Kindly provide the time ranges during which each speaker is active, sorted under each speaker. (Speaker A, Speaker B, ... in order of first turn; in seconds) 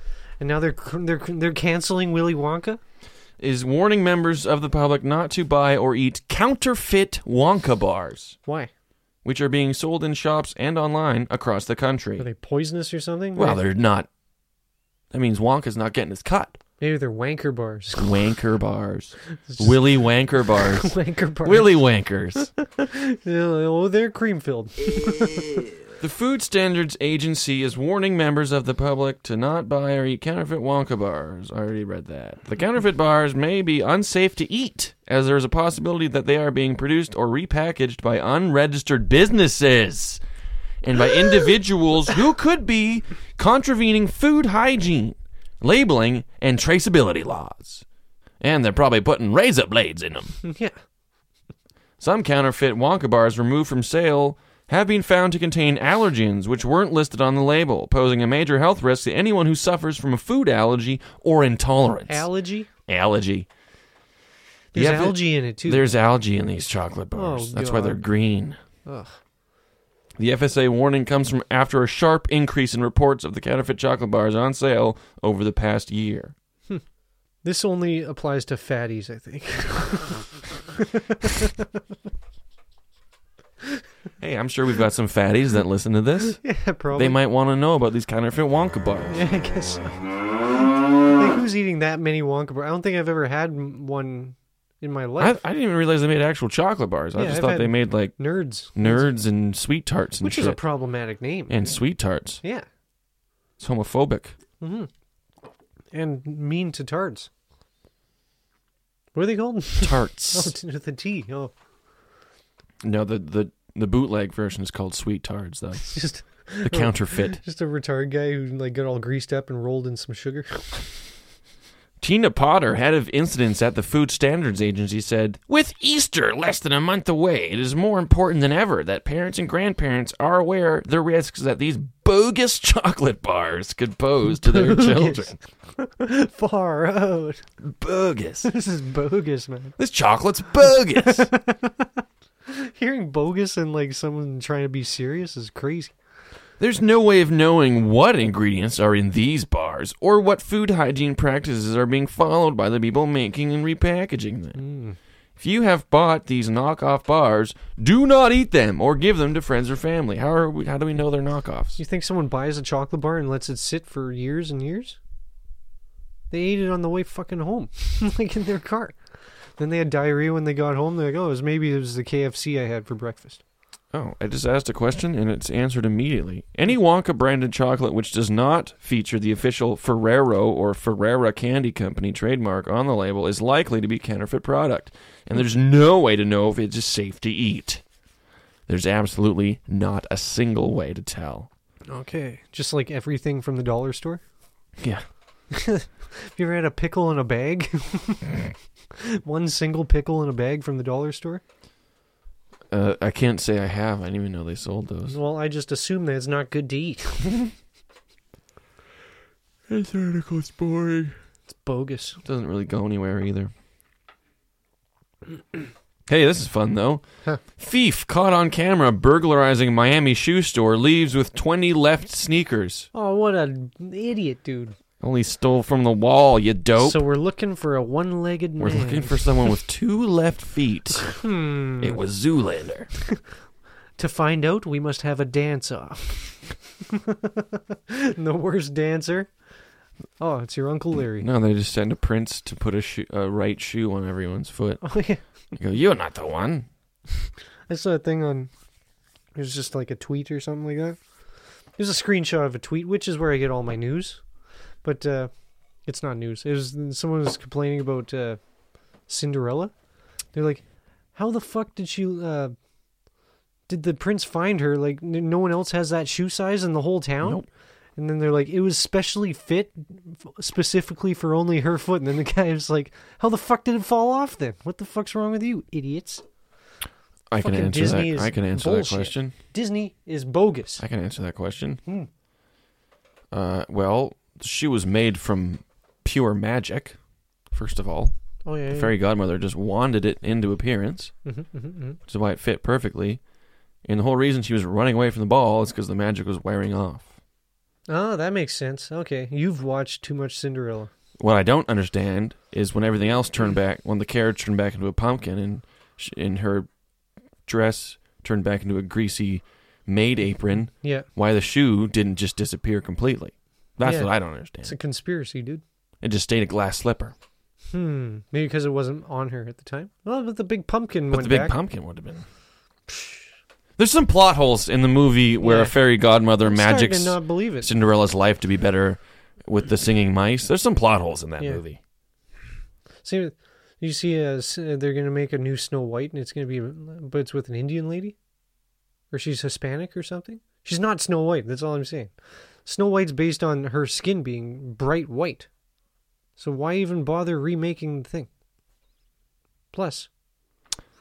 Speaker A: 0.4-2.8, 8.4-8.7, 12.2-13.6, 16.8-18.1, 19.4-19.9, 20.6-21.8, 22.6-25.6, 50.4-50.8, 62.1-62.7, 64.7-65.9, 67.1-68.0, 68.8-69.2, 77.4-80.3, 81.0-81.5, 86.4-87.2, 89.1-89.9, 91.2-95.4, 97.2-99.1, 100.2-101.6, 104.6-104.9, 105.9-107.3, 109.1-111.5, 115.8-120.9, 134.4-137.4, 138.4-139.7, 140.9-141.9, 142.5-145.9, 154.6-155.0, 161.8-165.0, 166.3-168.9, 169.6-173.4, 191.9-194.2, 195.5-198.4, 199.0-201.4, 205.1-207.4, 211.5-212.2, 222.9-224.8, 226.8-229.2, 231.2-232.0, 234.0-236.4, 236.9-239.3, 240.2-241.3, 244.8-245.2, 247.7-248.5, 249.3-251.0, 251.8-254.2, 254.8-255.3, 255.8-258.4, 259.1-259.7, 260.3-262.5, 263.7-267.4, 268.0-276.2, 277.4-280.8, 288.4-288.9, 291.2-292.0, 297.9-300.9, 310.8-311.1, 313.8-315.6, 317.7-321.6, 322.9-323.2, 325.4-325.8, 326.4-327.7, 333.0-338.1, 339.1-342.1, 342.6-345.5, 346.4-348.3, 349.7-350.1
Speaker B: 3.4-8.4, 9.2-12.2, 13.3-14.1, 15.1-16.6, 17.9-22.5, 26.0-40.2, 40.8-47.8, 48.4-50.4, 52.0-62.3, 62.9-63.5, 64.7-68.6, 70.2-76.3, 84.2-86.4, 86.9-89.2, 95.2-100.6, 101.5-102.4, 103.6-104.3, 109.8-110.5, 112.8-117.4, 122.0-135.4, 137.6-138.5, 139.8-141.3, 146.6-154.6, 155.4-161.8, 173.9-187.8, 188.7-191.5, 194.8-195.0, 202.7-205.2, 209.7-211.2, 212.2-213.5, 216.1-217.0, 217.6-222.9, 225.0-227.0, 228.6-231.2, 231.8-232.9, 241.2-245.0, 245.5-246.7, 277.3-279.3, 280.8-281.8, 283.3-287.0, 287.5-288.1, 288.6-291.1, 292.1-293.2, 293.8-297.1, 301.2-306.7, 307.4-314.8, 316.0-317.1, 321.1-322.2, 323.8-331.8